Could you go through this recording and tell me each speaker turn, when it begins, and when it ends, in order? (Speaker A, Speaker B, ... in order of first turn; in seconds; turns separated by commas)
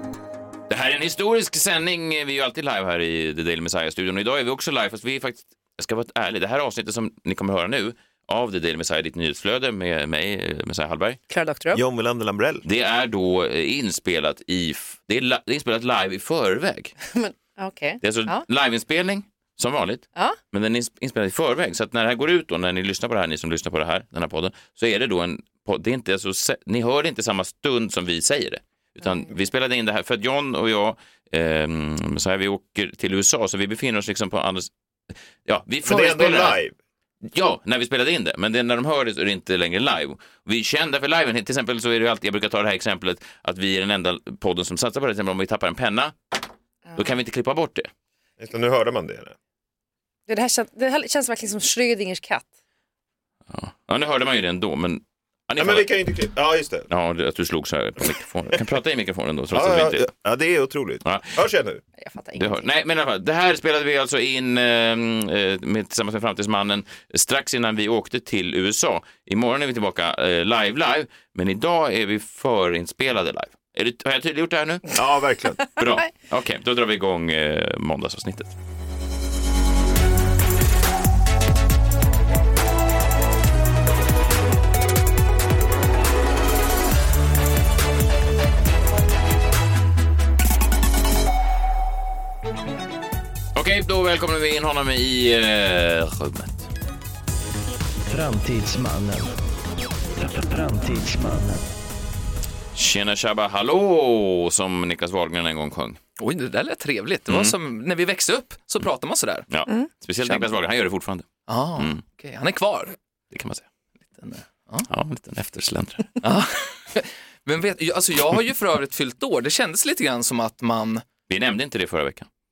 Speaker A: 0.7-11.2, Speaker B: 11.3-11.8, Speaker C: 11.7-12.6, Speaker A: 12.7-16.9, Speaker B: 17.1-18.4, Speaker A: 18.0-34.7, Speaker A: 35.5-36.6, Speaker C: 35.8-36.8, Speaker A: 37.3-46.1, Speaker A: 47.0-47.9, Speaker C: 48.4-49.4, Speaker B: 50.3-52.5, Speaker A: 53.5-55.9, Speaker C: 55.6-56.9, Speaker A: 56.9-60.1, Speaker C: 59.5-61.8, Speaker A: 61.0-61.3, Speaker B: 62.0-62.7, Speaker A: 62.4-75.0, Speaker C: 75.0-75.7, Speaker A: 75.8-78.5, Speaker A: 93.5-96.7, Speaker D: 98.1-99.3, Speaker D: 100.2-101.7, Speaker A: 102.7-106.0, Speaker E: 106.2-109.5, Speaker A: 107.3-107.6, Speaker A: 109.5-112.0, Speaker E: 111.5-113.0, Speaker A: 113.3-113.6, Speaker E: 114.2-114.9, Speaker A: 114.9-116.2, Speaker E: 116.2-121.1, Speaker A: 121.3-122.3